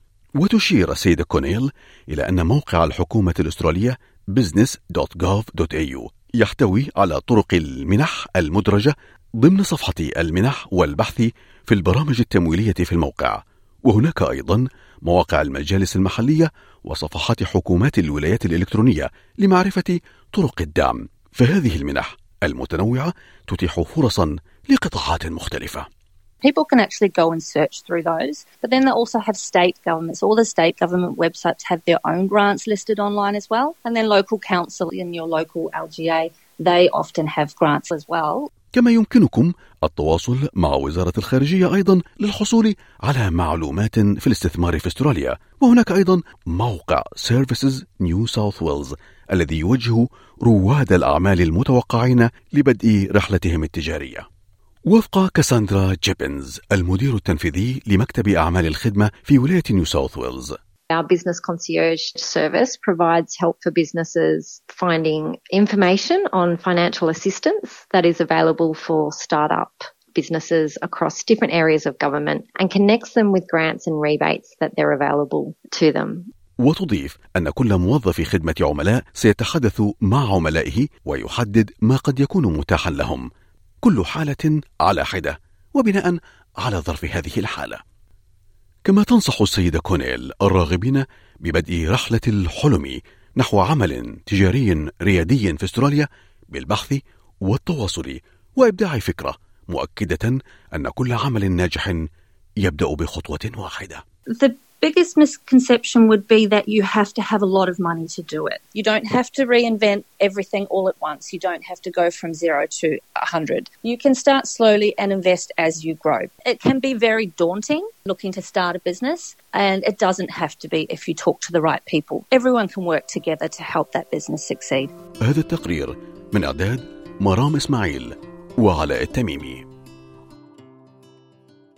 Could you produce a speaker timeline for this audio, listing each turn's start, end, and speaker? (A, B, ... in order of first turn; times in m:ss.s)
0:00.4-0:25.8 A
0:26.4-0:38.5 B
0:38.7-0:54.2 A
0:54.9-1:00.5 A
1:00.9-1:16.3 C
1:16.6-1:23.2 A
1:23.8-1:27.8 A
1:28.8-1:42.1 A
1:42.6-1:44.0 A
1:44.3-2:04.9 B
2:05.2-2:09.6 A